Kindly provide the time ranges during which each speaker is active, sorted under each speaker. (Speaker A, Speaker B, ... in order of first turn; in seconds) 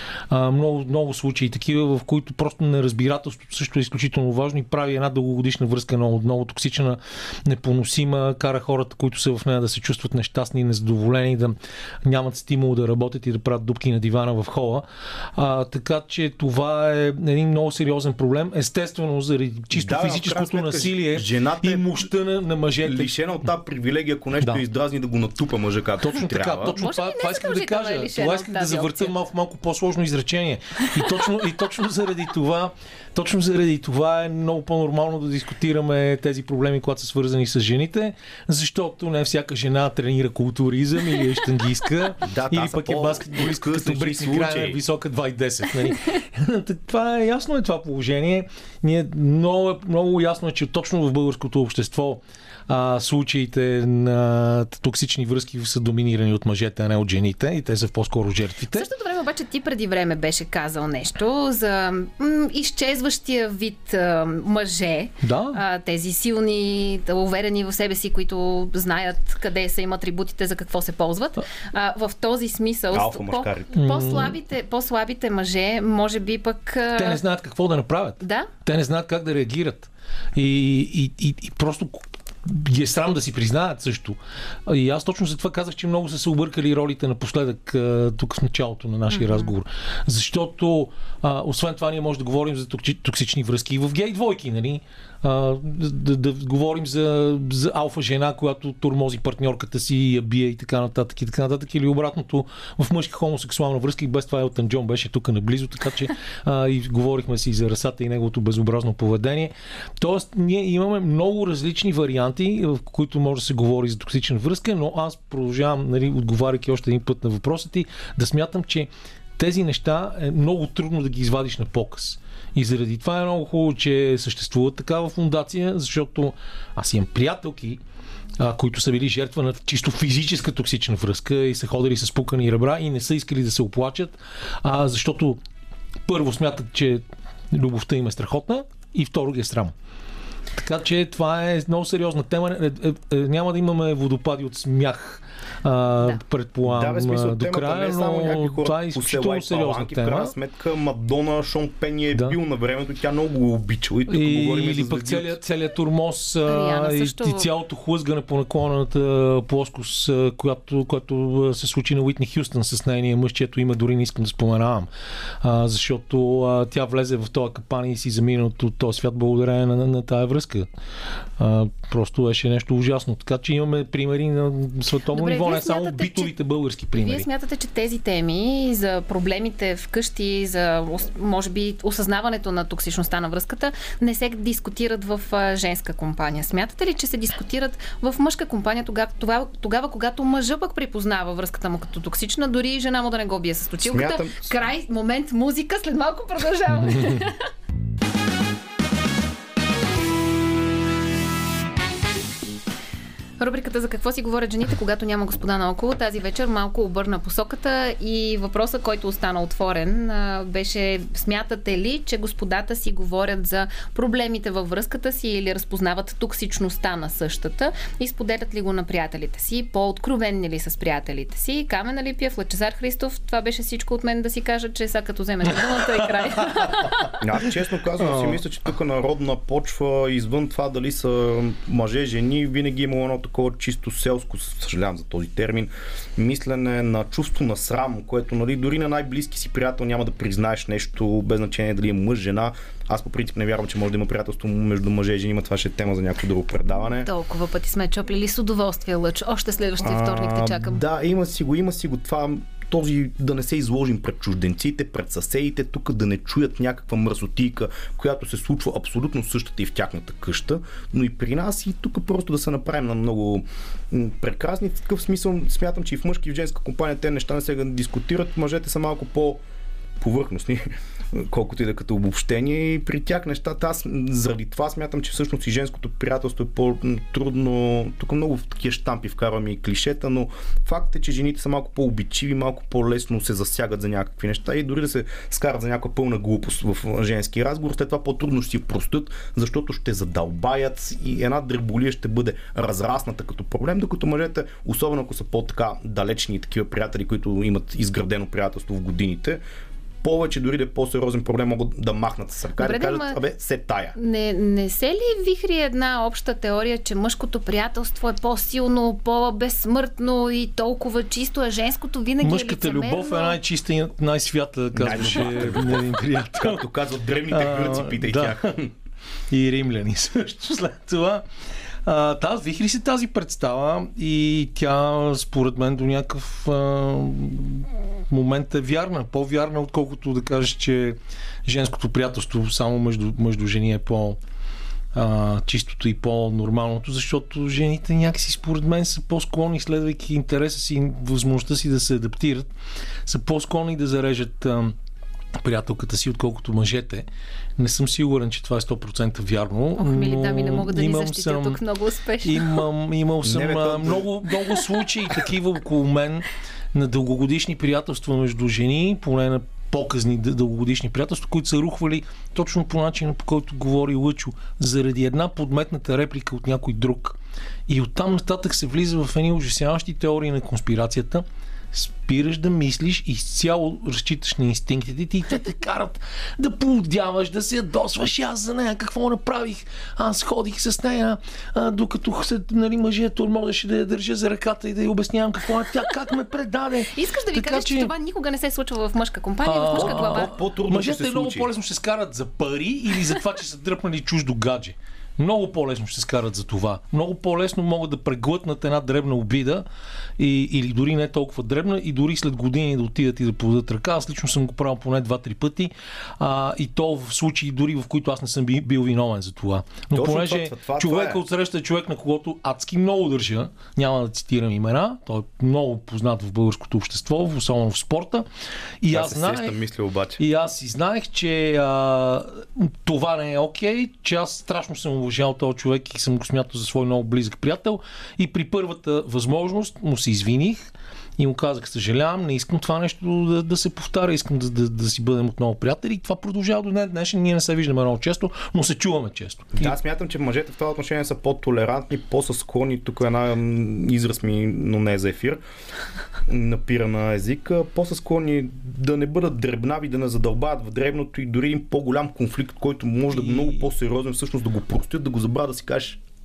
Speaker A: 0.3-23.1, 26.0-58.9, 65.2-65.6, 73.7-74.4, 77.0-127.8, 128.4-135.4, 136.1-139.7, 140.5-150.3, 154.1-164.9, 165.4-170.7, 171.4-177.3, 196.9-197.2, 225.6-227.1, 228.0-228.4, 312.2-316.6, 317.3-318.5, 319.3-321.2, 321.8-334.2, 334.9-342.5, 343.1-344.7, 345.4-347.1, 347.6-351.6, 352.2-367.2, 367.7-387.9, 389.4-399.6, 400.2-418.3, 418.8-419.6, 420.2-430.6, 431.2-439.7, 453.1-453.6
Speaker B: 19.7-22.0, 22.8-26.8, 42.2-44.8, 72.9-73.7, 146.6-155.4, 193.8-194.5, 227.2-247.1, 249.8-269.4, 270.0-299.4, 300.0-303.9, 314.7-318.7, 353.2-354.2, 389.7-391.5, 409.9-411.2, 418.9-420.2, 439.5-445.4, 446.3-456.0
Speaker C: 26.7-29.1, 58.7-77.2, 78.2-78.5, 89.1-89.5, 156.4-157.5, 175.1-176.3, 176.9-197.4, 203.4-227.1, 247.0-250.8, 302.6-303.2, 303.9-313.4, 349.8-352.6, 386.9-390.3